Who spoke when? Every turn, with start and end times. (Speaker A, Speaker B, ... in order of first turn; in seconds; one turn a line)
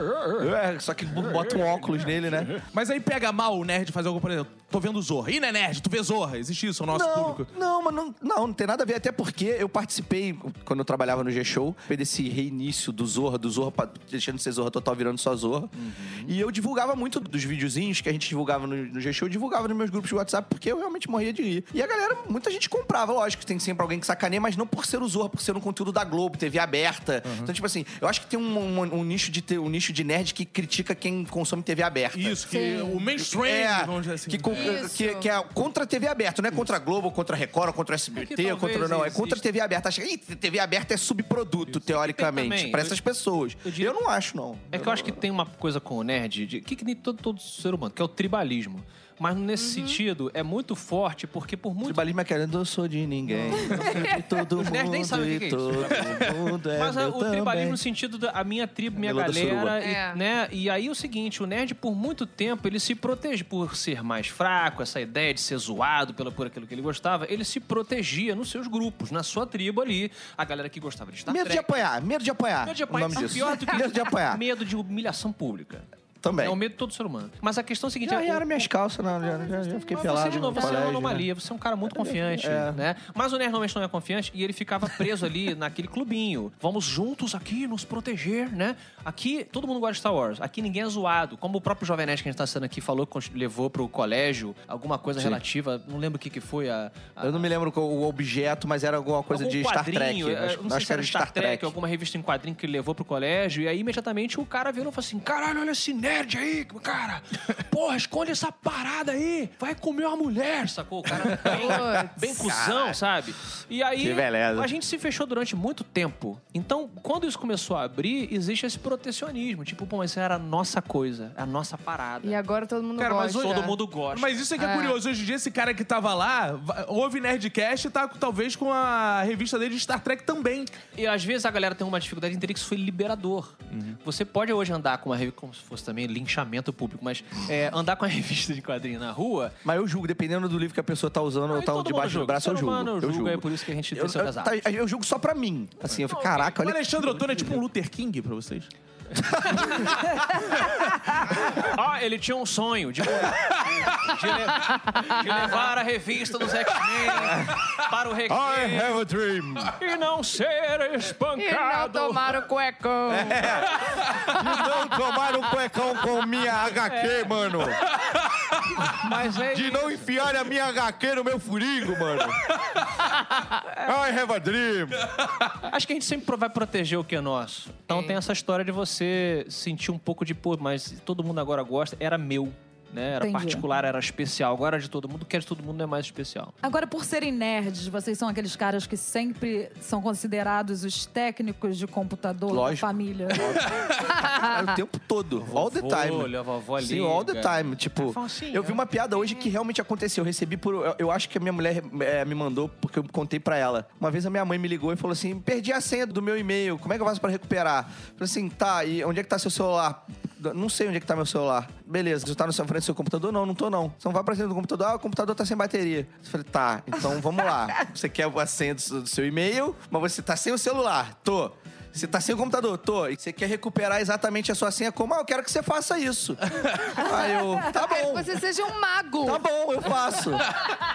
Speaker A: 0.3-2.6
Speaker B: 2.7-7.5
Speaker A: 6.9-32.4
Speaker C: 15.7-16.3
Speaker B: 27.2-27.5
Speaker B: 32.1-34.7
Speaker D: 32.5-33.0
Speaker A: 33.2-45.2
Speaker D: 34.5-35.3
Speaker C: 34.5-34.8
Speaker C: 38.1-39.4
Speaker C: 41.7-43.0
Speaker C: 43.6-44.0
Speaker C: 44.7-52.0
Speaker D: 49.6-50.0
Speaker A: 51.8-57.8
Speaker C: 53.3-71.7
Speaker D: 53.5-54.3
Speaker A: 59.0-59.8
Speaker D: 59.8-60.2
Speaker A: 71.3-74.4
Speaker C: 72.6-78.7
Speaker A: 76.2-76.6
Speaker A: 78.0-81.2
Speaker C: 79.9-97.5
Speaker A: 81.8-82.8
Speaker A: 97.2-101.7
Speaker C: 99.3-122.4
Speaker D: 111.3-112.4
Speaker A: 111.3-111.8
Speaker A: 112.4-113.0
Speaker A: 114.0-114.7
Speaker D: 122.2-123.8
Speaker C: 123.0-124.4
Speaker B: 123.0-130.7
Speaker D: 124.6-125.0
Speaker C: 130.9-139.6
Speaker B: 133.7-134.0
Speaker A: 139.6-147.2
Speaker C: 141.5-144.6
Speaker C: 146.0-146.5
Speaker B: 146.5-148.7
Speaker C: 149.2-149.9
Speaker A: 149.2-150.1
Speaker B: 149.7-150.8
Speaker C: 151.4-159.0
Speaker B: 153.6-154.1
Speaker D: 154.7-155.1
Speaker B: 156.7-157.8
Speaker A: 157.2-157.6
Speaker A: 158.3-159.7
Speaker C: 159.8-162.3
Speaker D: 161.4-163.6
Speaker A: 163.1-167.9
Speaker B: 163.8-164.3
Speaker C: 166.8-167.8
Speaker B: 167.9-168.8
Speaker C: 168.8-170.1
Speaker A: 169.4-172.4
Speaker A: 173.6-175.1
Speaker B: 175.1-175.4
Speaker C: 175.5-186.5
Speaker E: 183.2-183.6
Speaker E: 186.6-193.6
Speaker A: 192.5-228.4
Speaker B: 193.8-194.1
Speaker D: 194.2-194.7
Speaker C: 195.4-198.8
Speaker D: 227.6-229.4
Speaker A: 229.2-230.5